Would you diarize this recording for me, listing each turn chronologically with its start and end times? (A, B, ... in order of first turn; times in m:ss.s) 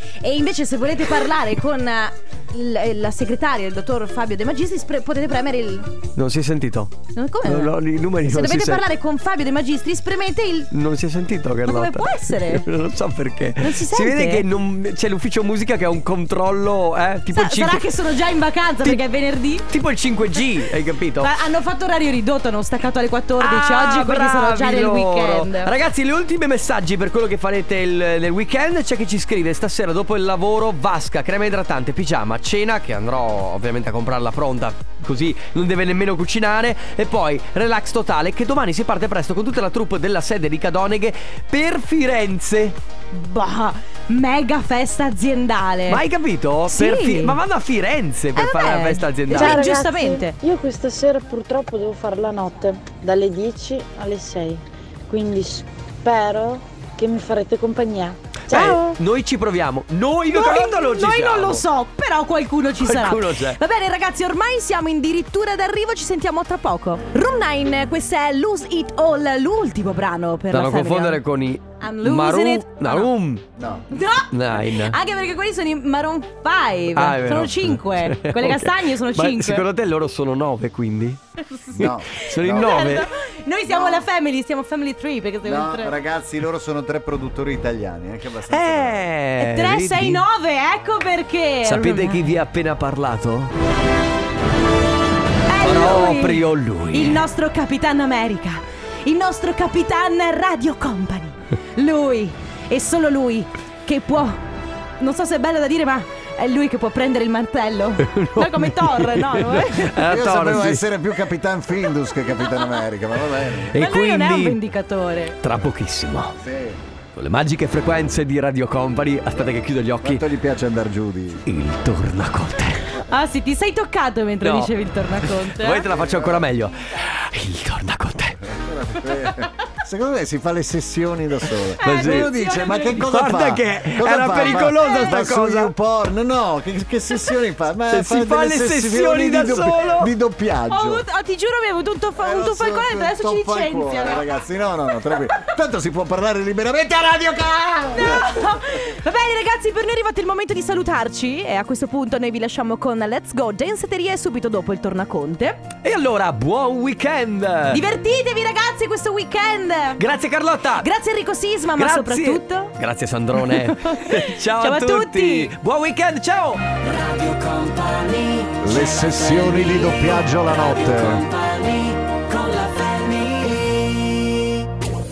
0:00.2-0:05.9 A
0:06.2-0:08.8 B
0:07.1-0:10.7 A
0:10.7-0:17.8 B
0:11.6-0:12.7 A
0:13.6-0:14.4 A
0:17.3-0:19.6 A
0:19.7-0:21.3 B
0:21.2-0:25.7 A
0:23.4-0:42.8 B
0:43.1-0:46.0 A
0:45.9-0:49.7 B
0:46.7-0:47.4 A
0:48.4-0:50.3 A
0:49.3-0:58.9 C
0:58.5-1:01.6 B
0:58.5-0:58.9 A
1:00.3-1:11.2 A
1:02.8-1:03.6 B
1:10.5-1:13.4 B
1:11.8-1:13.1 A
1:13.6-1:13.9 D
1:13.9-1:19.6 A
1:14.3-1:15.0 B
1:16.9-1:21.2 B
1:21.5-1:26.0 A
1:21.7-1:23.0 D
1:21.8-1:23.1 B
1:23.7-1:24.0 D
1:25.4-1:29.1 D
1:28.5-1:30.2 B
1:29.4-1:32.2 A
1:31.6-1:33.5 B
1:35.5-1:44.4 A
1:35.6-1:37.2 B
1:45.0-1:50.0 A
1:48.0-1:50.8 B
1:50.0-1:53.8 D
1:53.7-1:54.6 B
1:53.8-1:55.4 A
1:55.4-1:56.4 B
1:56.3-1:56.8 D
1:57.1-2:00.2 B
2:00.0-2:01.4 D
2:01.4-2:03.0 B
2:03.1-2:05.9 A
2:04.4-2:04.7 B
2:05.2-2:08.4 B
2:05.9-2:06.5 D
2:08.4-2:21.0 D
2:11.8-2:12.3 B
2:11.8-2:13.1 A
2:12.9-2:15.7 B
2:14.8-2:15.2 A
2:17.9-2:20.1 B
2:20.7-2:24.3 A
2:22.2-2:28.4 D
2:27.9-2:35.6 A
2:35.8-2:37.9 B
2:37.7-2:40.0 A
2:40.0-2:40.9 B
2:40.8-2:42.7 A
2:41.7-2:46.6 B
2:43.4-2:45.5 A
2:46.7-2:54.3 E
2:48.6-2:51.2 D